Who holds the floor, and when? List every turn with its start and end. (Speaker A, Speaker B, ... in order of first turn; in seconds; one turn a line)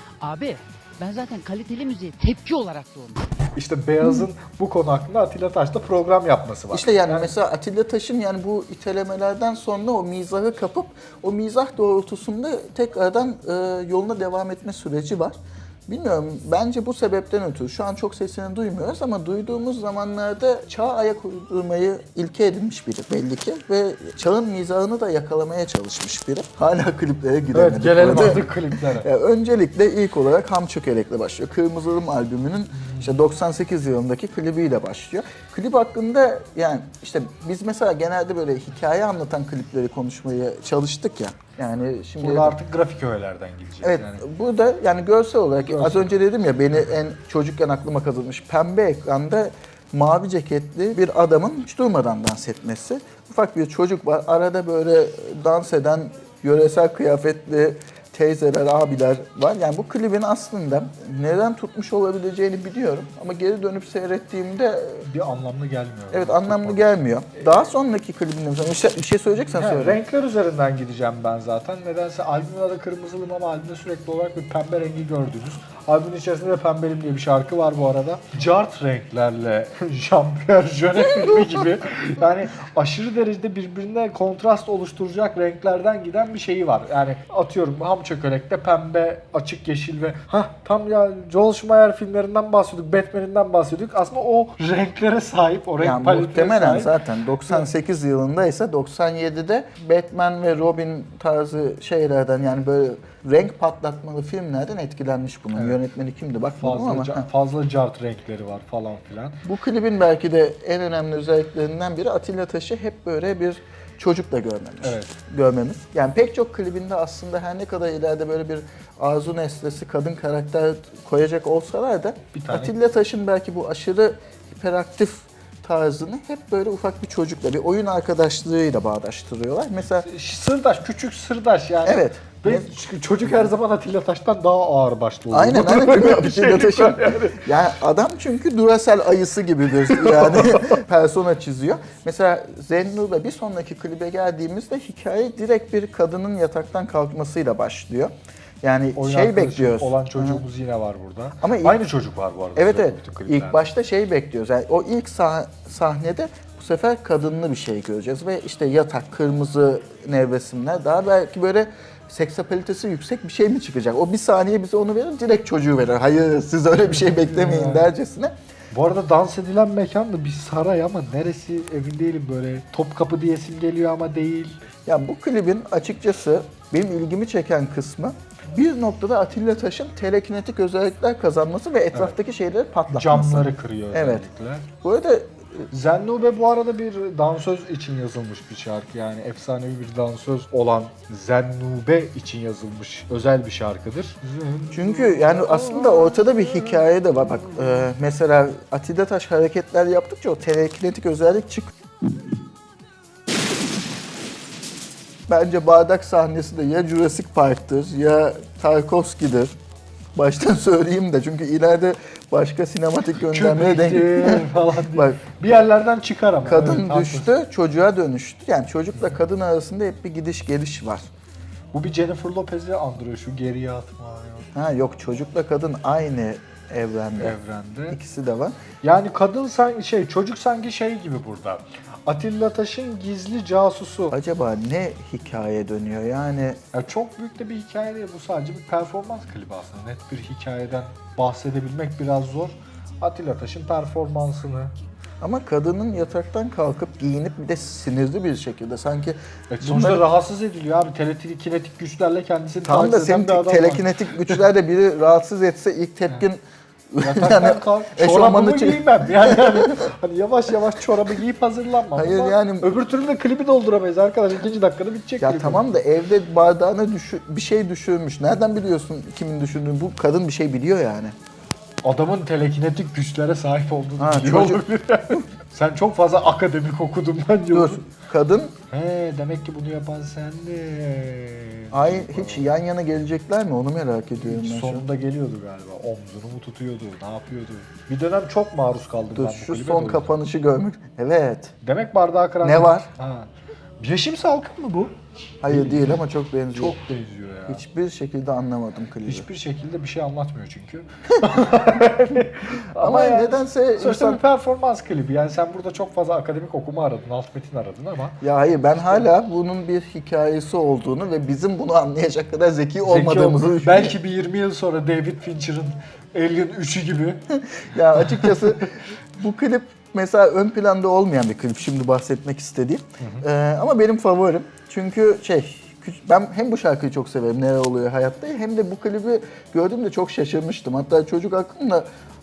Speaker A: 0.2-3.3
Speaker B: 3.6-7.3
Speaker C: 6.7-42.6
Speaker B: 27.5-29.1
Speaker B: 32.8-33.1
Speaker B: 42.2-44.2
Speaker C: 43.8-65.1
Speaker B: 45.6-46.2
Speaker B: 65.0-67.0
Speaker C: 66.1-70.0
Speaker B: 69.5-96.9
Speaker C: 95.8-107.3
Speaker B: 105.5-105.8
Speaker B: 106.6-109.4
Speaker C: 109.5-130.1
Speaker B: 114.8-115.2
Speaker B: 122.3-122.7
Speaker B: 130.1-137.5
Speaker C: 131.8-132.7
Speaker C: 135.3-150.4
Speaker B: 140.0-140.8
Speaker B: 149.0-153.7
Speaker C: 151.4-151.8
Speaker C: 152.6-168.3
Speaker B: 166.9-167.9
Speaker B: 168.7-174.6
Speaker C: 174.9-184.3
Speaker B: 182.9-184.7
Speaker C: 184.8-185.7
Speaker B: 185.7-195.2
Speaker C: 194.7-201.7
Speaker C: 205.3-209.6
Speaker C: 210.2-215.2
Speaker B: 213.3-217.3
Speaker C: 216.4-221.1
Speaker B: 221.7-224.5
Speaker C: 224.6-227.4
Speaker B: 227.2-228.0
Speaker C: 227.9-228.6
Speaker B: 228.8-234.2
Speaker C: 234.1-236.6
Speaker B: 236.7-244.7
Speaker C: 245.2-250.1
Speaker B: 249.5-254.4
Speaker C: 252.7-259.8
Speaker B: 257.0-265.8
Speaker C: 261.9-262.7
Speaker C: 265.2-271.1
Speaker B: 271.8-277.8
Speaker C: 274.0-275.3
Speaker C: 277.5-278.6
Speaker B: 278.7-282.4
Speaker C: 281.7-284.8
Speaker B: 284.2-290.1
Speaker C: 289.1-291.5
Speaker B: 291.6-293.3
Speaker C: 292.4-292.9
Speaker B: 293.8-294.9
Speaker C: 295.4-296.8
Speaker B: 295.5-296.0
Speaker B: 296.5-297.6
Speaker C: 297.5-299.3
Speaker B: 299.1-308.2
Speaker C: 301.2-301.7
Speaker C: 302.8-304.2
Speaker C: 308.2-313.9
Speaker B: 312.8-317.2
Speaker C: 317.3-331.9
Speaker B: 318.0-318.4